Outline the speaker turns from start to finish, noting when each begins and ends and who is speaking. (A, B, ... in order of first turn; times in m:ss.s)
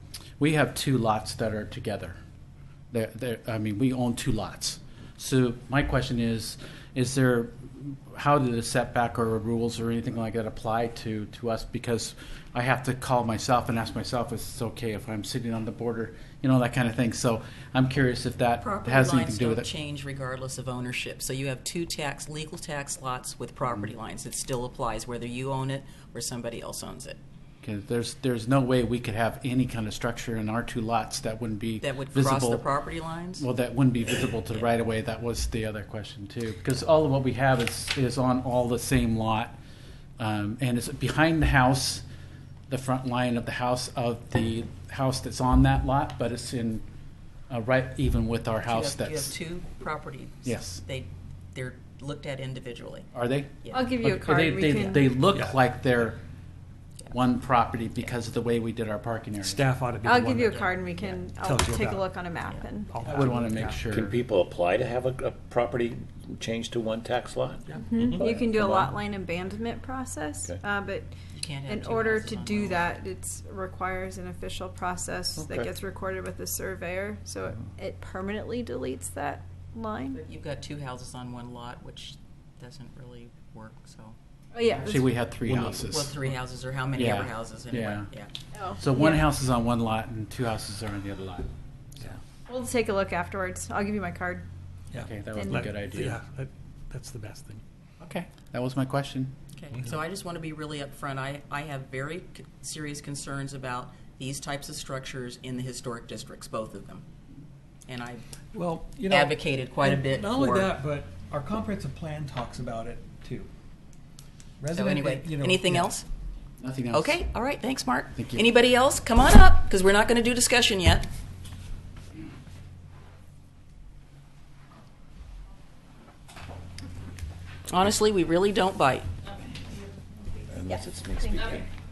0:00.4-0:02.2 A
0:02.9-0:19.7 A
0:18.6-0:27.2 B
0:27.6-0:32.7 A
0:31.8-0:33.4 B
0:33.4-0:39.5 A
0:40.2-0:42.0 A
0:42.7-0:46.8 A
0:47.5-0:49.3 A
0:48.7-0:53.1 B
0:50.4-0:50.8 A
0:53.1-0:56.2 A
0:53.7-0:55.2 C
0:55.3-0:55.6 D
0:57.1-0:59.6 A
0:59.4-1:00.5 D
1:00.0-1:02.9 C
1:00.4-1:01.3 B
1:01.3-1:02.2 D
1:02.9-1:03.9 D
1:03.1-1:04.2 A
1:03.9-1:08.9 E
1:07.9-1:20.2 C
1:11.3-1:12.8 B
1:15.4-1:15.7 E
1:20.1-1:24.2 B
1:24.5-1:25.0 C
1:24.8-1:26.1 A
1:25.0-1:28.3 B
1:26.9-1:28.1 A
1:28.6-1:29.2 C
1:28.8-1:31.5 A
1:32.5-1:34.4 C
1:34.9-1:37.6 D
1:35.0-1:36.2 A
1:38.0-1:39.3 A
1:39.5-1:47.0 B
1:47.9-1:48.2 B
1:48.5-1:53.5 D
1:49.1-1:50.7 B
1:54.6-1:56.0 D
1:54.7-1:56.0 B
1:56.6-1:57.2 A
1:56.9-2:01.1 B
1:58.1-1:58.4 A
2:07.7-2:09.1 B
2:10.5-2:11.6 E